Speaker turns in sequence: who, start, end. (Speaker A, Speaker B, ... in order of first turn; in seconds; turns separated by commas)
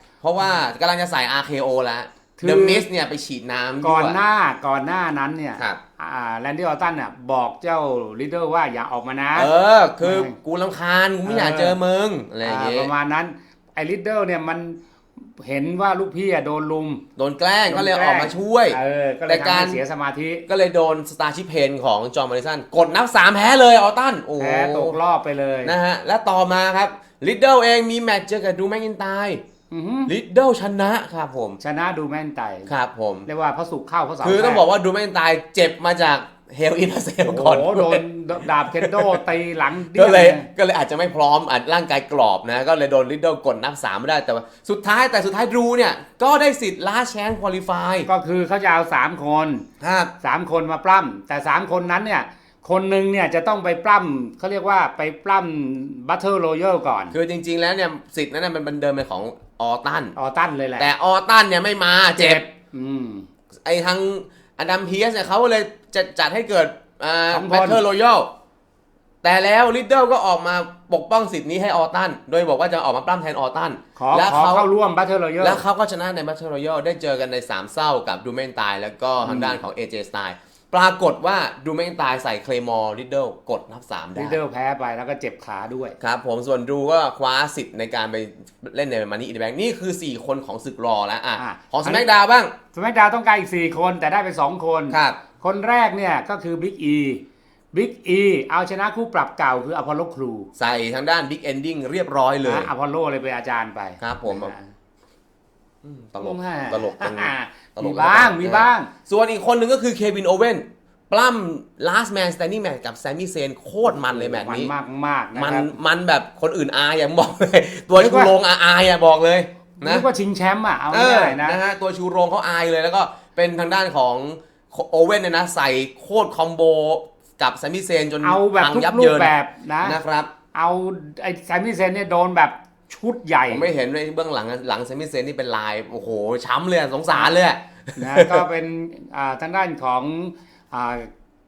Speaker A: 0.2-4.2, Speaker B: 2.4-2.9, Speaker B: 3.8-10.3, Speaker A: 9.3-12.9, Speaker B: 11.2-11.8, Speaker B: 12.4-17.0, Speaker A: 17.1-19.8, Speaker B: 17.7-20.4, Speaker A: 20.5-25.0, Speaker B: 24.4-25.8, Speaker A: 25.6-29.4, Speaker B: 29.7-30.1, Speaker A: 30.1-31.6, Speaker B: 31.6-32.7, Speaker A: 32.7-33.3, Speaker B: 33.3-34.6, Speaker A: 34.2-38.0, Speaker B: 37.2-40.5, Speaker A: 38.6-39.2, Speaker A: 39.9-48.1, Speaker B: 48.1-49.6, Speaker A: 49.8-50.1, Speaker B: 50.2-57.1, Speaker A: 57.1-60.1, Speaker B: 60.1-60.9, Speaker A: 60.8-62.4, Speaker B: 62.1-63.3, Speaker A: 63.6-68.3, Speaker B: 67.3-67.8, Speaker A: 69.2-74.7, Speaker B: 74.0-75.6, Speaker A: 75.4-84.4, Speaker B: 79.2-79.6, Speaker B: 84.2-86.0, Speaker A: 86.0-92.5, Speaker B: 91.4-92.1, Speaker B: 92.7-100.5, Speaker A: 94.9-95.2, Speaker A: 100.5-102.7, Speaker B: 102.4-104.7, Speaker A: 104.0-104.5, Speaker A: 105.8-114.7, Speaker B: 106.2-108.9, Speaker B: 114.0-115.7, Speaker A: 115.3-120.0, Speaker B: 117.9-118.3, Speaker B: 119.8-121.6, Speaker A: 120.9-130.3, Speaker B: 128.2-130.0, Speaker B: 130.5-133.7, Speaker A: 133.5-138.4, Speaker B: 138.0-141.1